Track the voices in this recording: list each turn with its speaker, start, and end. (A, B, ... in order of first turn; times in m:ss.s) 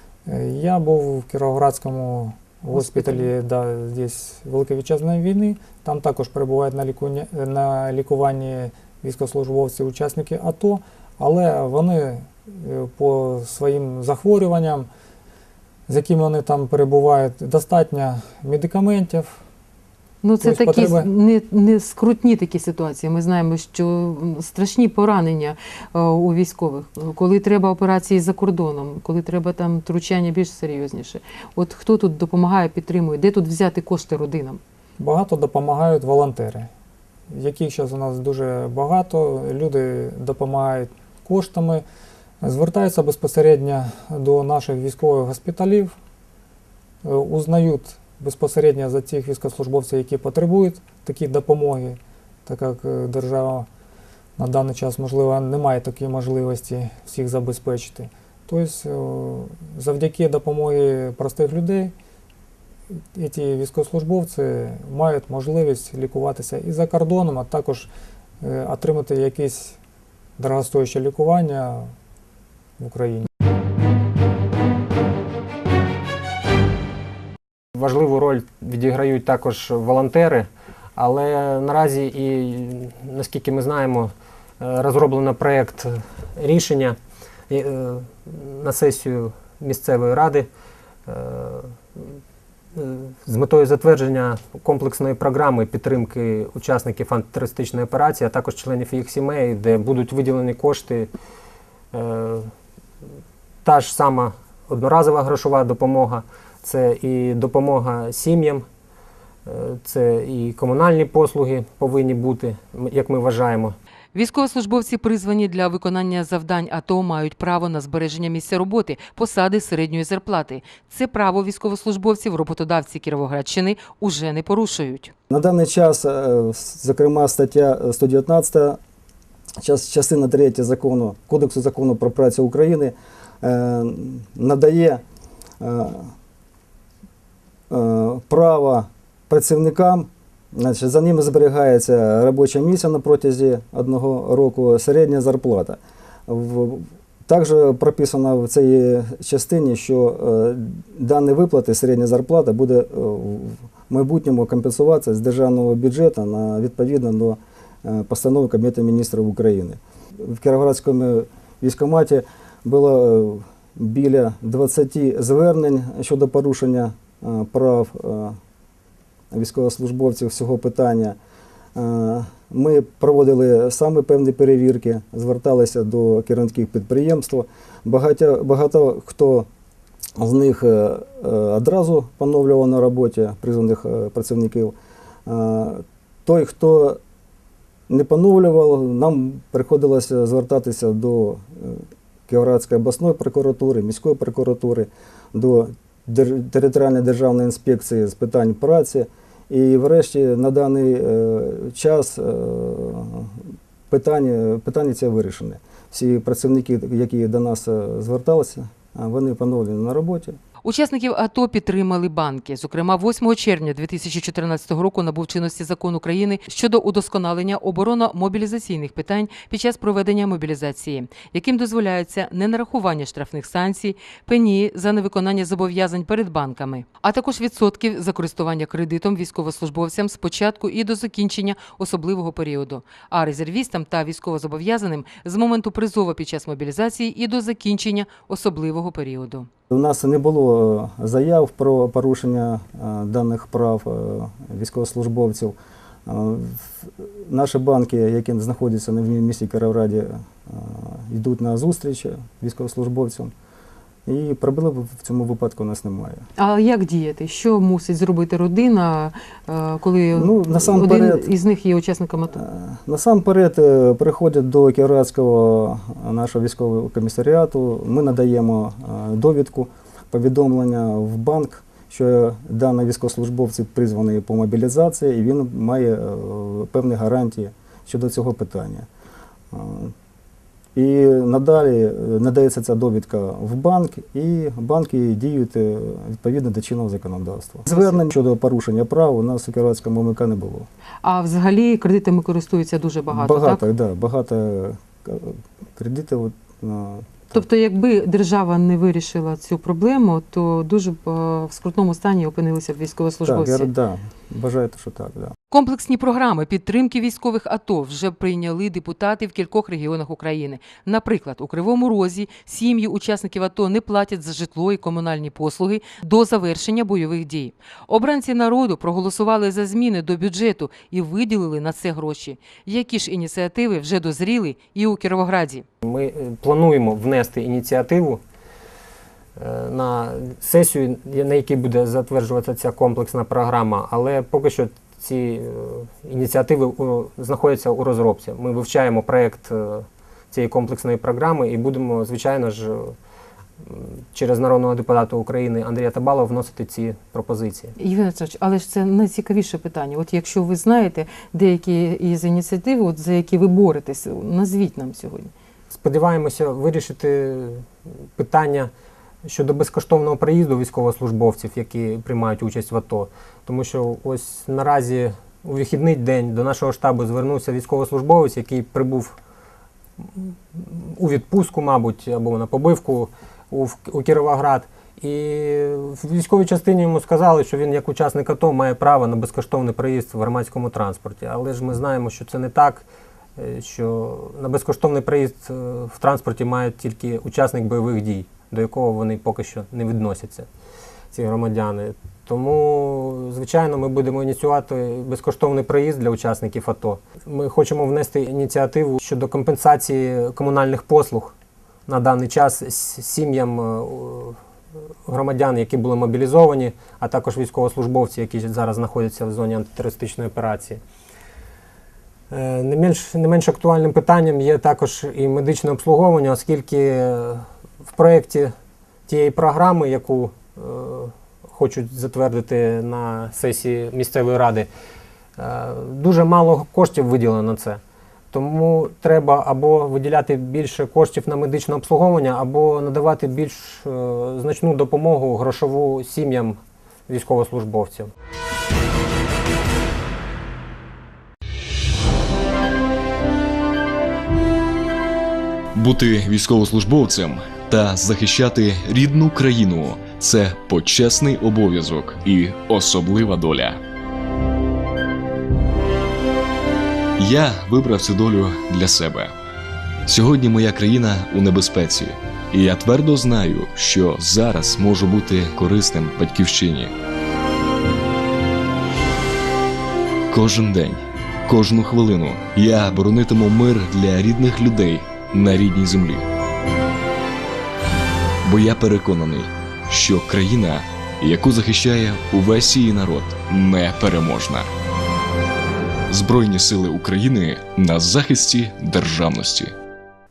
0:00.3-0:14.9 A
0:02.7-0:03.3 B
0:15.9-0:19.4 A
0:20.2-0:34.6 B
0:20.4-0:21.1 A
0:35.0-0:36.7 A
0:37.3-0:41.8 A
0:42.4-0:46.0 A
0:47.0-0:53.7 A
0:54.4-1:02.0 A
1:03.1-1:07.9 A
1:08.4-1:09.8 A
1:10.4-1:12.0 A
1:12.8-1:13.3 A
1:17.8-1:27.0 C
1:27.5-1:30.5 C
1:31.1-1:32.2 C
1:32.8-1:41.1 C
1:41.9-1:42.5 C
1:43.6-1:48.6 C
1:49.5-1:53.8 C
1:54.1-2:05.1 B
2:05.3-2:08.8 D
2:09.6-2:15.0 D
2:15.6-2:16.1 D
2:17.7-2:48.4 D
2:49.3-2:51.2 D
2:51.8-2:59.5 D
3:00.2-3:04.8 D
3:05.3-3:07.0 D
3:07.9-3:23.3 D
3:23.9-3:30.4 D
3:30.6-3:59.5 B
3:59.7-4:13.3 D
4:14.1-4:16.2 D
4:16.4-4:22.4 B
4:20.1-4:21.3 D
4:22.4-4:38.9 D
4:39.5-4:39.9 D
4:40.8-4:50.7 D
4:47.7-4:48.0 B
4:51.0-4:53.6 B
4:53.1-4:57.4 D
4:57.3-5:03.7 B
5:03.3-5:05.4 D
5:05.5-5:25.6 B
5:25.8-5:28.2 C
5:29.4-5:43.0 C
5:43.6-5:47.8 C
5:47.8-5:55.3 B
5:55.7-5:58.7 C
5:59.3-6:09.2 C
6:10.0-6:22.8 C
6:23.4-6:30.5 C
6:31.1-6:41.4 C
6:41.9-6:44.4 C
6:45.1-6:50.8 C
6:52.3-6:58.5 C
6:59.1-7:04.7 C
7:05.4-7:07.8 C
7:08.3-7:18.1 C
7:25.8-7:33.8 E
7:37.2-7:39.3 E
7:40.1-7:46.9 E
7:50.3-7:56.3 E
7:58.4-8:04.7 E
8:06.1-8:09.7 E